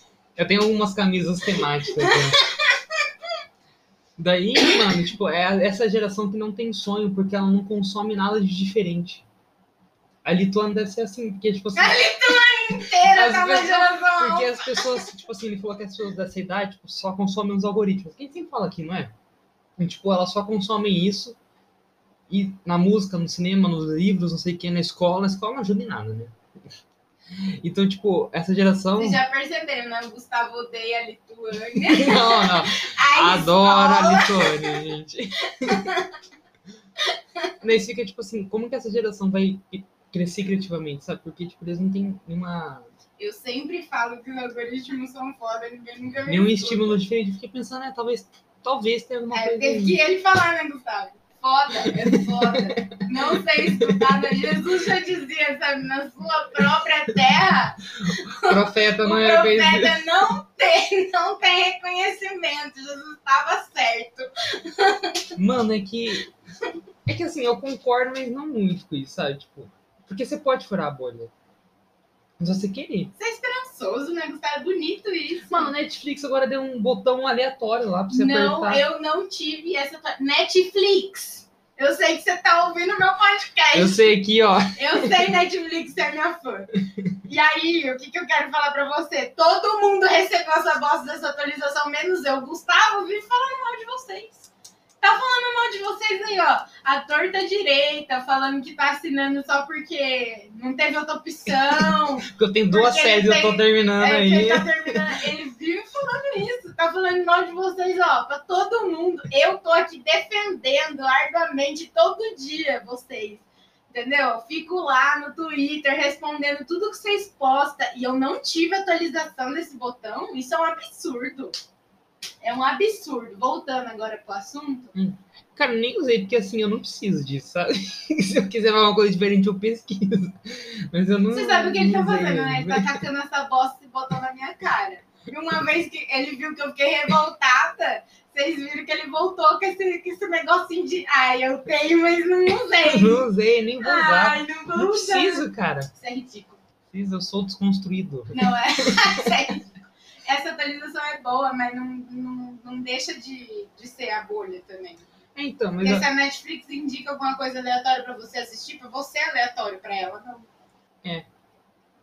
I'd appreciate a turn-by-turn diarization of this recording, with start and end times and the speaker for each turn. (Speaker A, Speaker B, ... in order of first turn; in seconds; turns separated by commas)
Speaker A: 0.4-2.4, Speaker B: 1.8-3.0, Speaker A: 4.2-9.2, Speaker A: 10.2-19.1, Speaker B: 11.8-15.1, Speaker A: 19.8-21.4, Speaker A: 22.3-26.4, Speaker A: 27.3-29.2, Speaker B: 29.0-34.8, Speaker A: 31.8-35.9, Speaker B: 35.5-36.1, Speaker B: 37.0-37.5, Speaker A: 37.6-42.9, Speaker B: 43.2-47.0, Speaker A: 46.3-50.0, Speaker B: 49.3-65.4, Speaker A: 51.8-54.6, Speaker A: 58.0-60.2, Speaker A: 65.4-66.3, Speaker A: 67.1-71.3, Speaker A: 72.4-73.1, Speaker B: 73.2-75.7, Speaker A: 75.5-78.8, Speaker B: 78.1-84.1, Speaker A: 83.7-85.3, Speaker B: 84.8-86.7, Speaker B: 87.2-94.5, Speaker B: 95.0-121.6, Speaker A: 101.5-105.1, Speaker B: 122.4-124.9, Speaker A: 124.9-133.0, Speaker B: 131.3-143.3, Speaker A: 142.8-145.9, Speaker B: 143.8-146.6, Speaker A: 146.9-149.4, Speaker B: 148.3-155.1, Speaker A: 155.3-156.1, Speaker B: 155.8-160.5